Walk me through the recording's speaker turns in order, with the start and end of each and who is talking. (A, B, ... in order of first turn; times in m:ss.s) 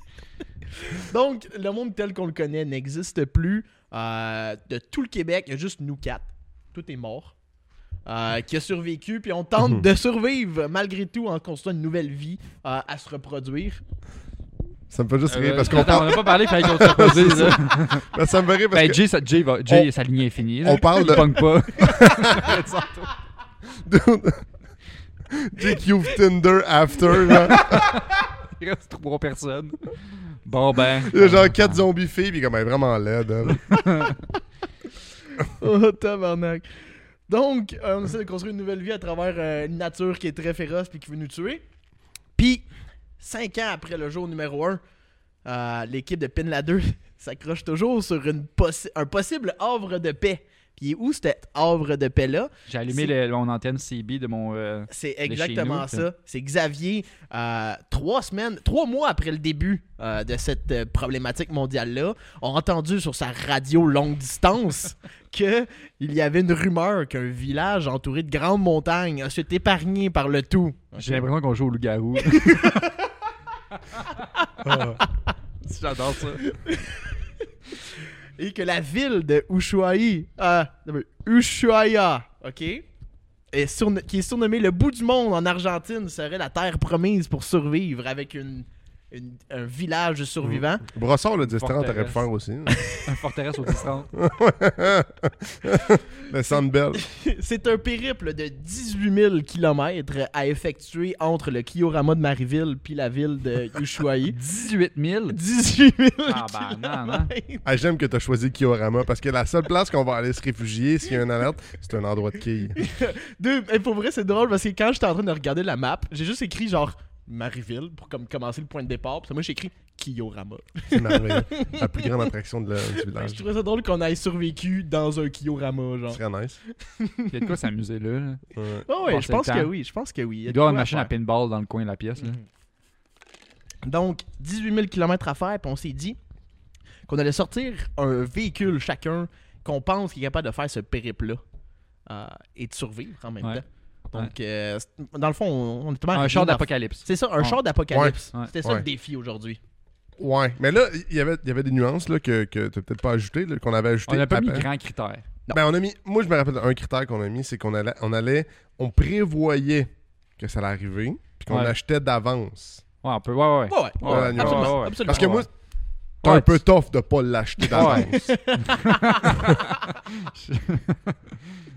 0:00.7-0:07.3 A
0:08.0-0:13.8 A
0:14.9-0:19.0 B
0:15.3-0:18.1 C
0:18.7-0:23.1 C
0:20.6-0:22.6 B
0:23.8-0:24.4 B
0:25.3-0:27.9 B
0:27.3-0:31.8 C
0:31.1-0:33.8 B
0:33.7-0:34.1 C
0:35.4-0:41.6 A
0:42.4-0:42.7 A
0:43.2-0:44.8 A
0:45.4-0:53.1 A
0:52.7-0:56.1 C
0:54.9-1:11.3 A
1:11.0-1:12.8 C
1:12.2-1:13.1 A
1:14.2-1:15.3 A
1:14.6-1:15.0 B
1:15.6-1:16.4 C
1:16.4-1:22.8 A
1:23.5-1:30.8 A
1:30.4-1:32.8 B
1:31.4-1:32.2 C
1:32.7-1:33.0 A
1:32.9-1:34.1 C
1:34.1-1:37.0 B
1:36.9-1:44.4 A
1:44.3-1:45.4 C
1:45.3-1:47.6 A
1:46.2-1:47.3 C
1:47.6-1:52.8 B
1:52.8-2:02.3 A
2:00.9-2:03.4 B
2:02.9-2:07.6 A
2:06.1-2:06.6 B
2:07.3-2:08.4 C
2:08.5-2:08.8 B
2:08.9-2:11.1 A
2:09.0-2:09.7 C
2:10.5-2:12.4 C
2:12.2-2:12.4 A
2:13.8-2:16.2 A
2:17.1-2:21.4 A
2:22.1-2:29.6 A
2:26.1-2:27.6 C
2:27.9-2:28.8 B
2:30.2-2:34.7 B
2:34.1-2:35.2 C
2:35.5-2:42.8 B
2:41.5-2:41.7 C
2:43.0-2:45.4 C
2:43.7-2:45.5 A
2:44.0-2:45.5 B
2:46.2-2:46.6 C
2:46.2-2:48.2 B
2:47.7-2:49.4 A
2:47.7-2:51.3 C